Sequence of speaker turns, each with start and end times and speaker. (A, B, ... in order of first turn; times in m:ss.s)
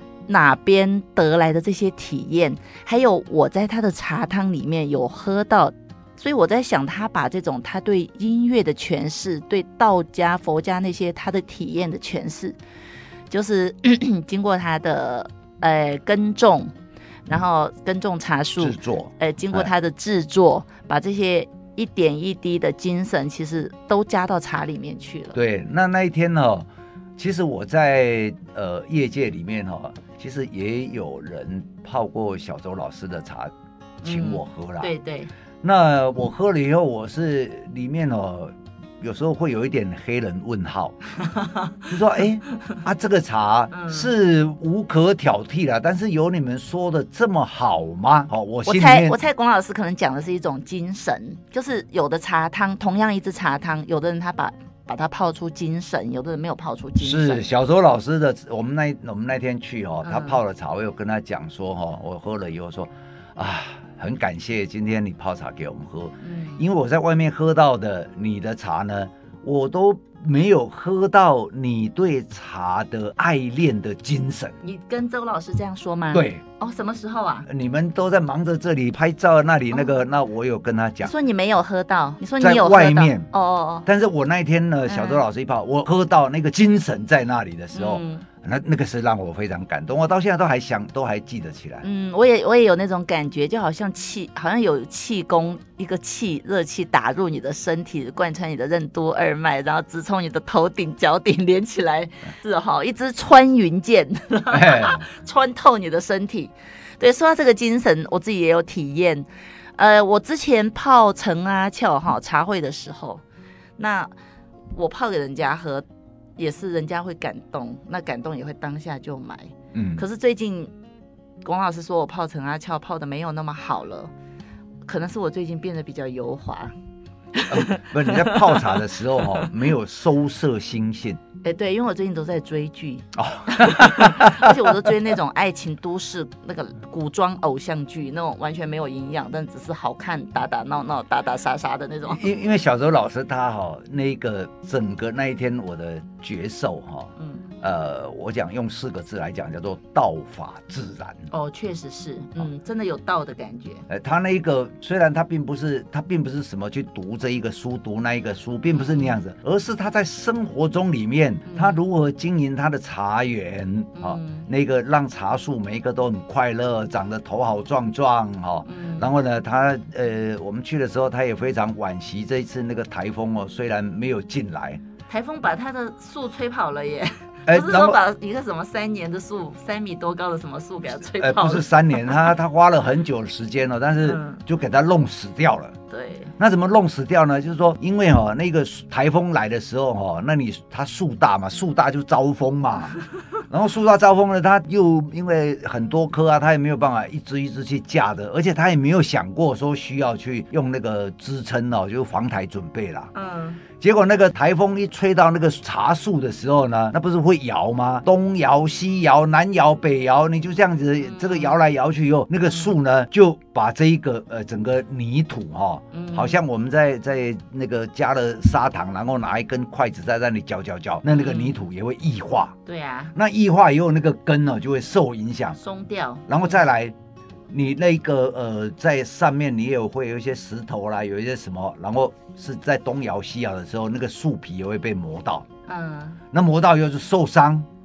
0:00.3-0:12.6 A
0:13.3-0:16.7 A
0:17.3-0:25.4 A
0:18.6-0:19.7 B
0:25.3-0:26.6 B
0:27.2-0:33.5 B
0:34.0-0:34.9 B
0:34.0-0:35.3 A
0:35.6-0:41.0 B
0:41.2-0:41.9 A
0:41.9-0:49.2 B
0:43.7-0:44.1 A
0:48.6-0:57.4 A
0:57.0-1:14.6 B
1:00.0-1:00.4 A
1:06.2-1:06.6 A
1:14.6-1:17.5 A
1:16.1-1:16.4 B
1:17.5-1:21.1 B
1:21.0-1:23.8 A
1:22.4-1:23.3 B
1:23.8-1:31.8 B
1:24.9-1:25.2 A
1:27.7-1:28.2 A
1:31.8-1:53.2 A
1:44.5-1:45.0 B
1:53.8-1:54.1 A
1:54.7-1:55.8 A
1:56.4-2:00.7 A
1:59.7-2:00.0 B
2:01.4-2:04.1 A
2:04.9-2:06.7 A
2:07.3-2:08.8 A
2:07.5-2:11.2 B
2:11.4-2:22.3 A
2:13.2-2:14.9 B
2:22.1-2:31.3 B
2:27.2-2:27.4 A
2:31.3-2:33.8 A
2:33.9-2:54.8 B
2:38.8-2:39.1 A
2:41.5-2:41.8 A
2:44.0-2:44.5 A
2:48.6-2:49.1 A
2:55.1-3:02.3 A
2:57.4-2:58.0 B
3:01.1-3:05.7 B
3:04.0-3:04.4 A
3:05.9-3:06.3 A
3:06.4-3:23.1 B
3:23.1-3:23.6 A
3:23.8-3:42.5 B
3:31.1-3:31.5 A
3:35.9-3:36.4 A
3:41.1-3:41.6 A
3:42.6-3:43.1 A
3:43.1-3:45.6 B
3:45.6-3:46.5 A
3:46.3-3:46.9 B
3:47.5-3:55.4 B
3:55.7-3:56.2 A
3:56.3-3:57.7 B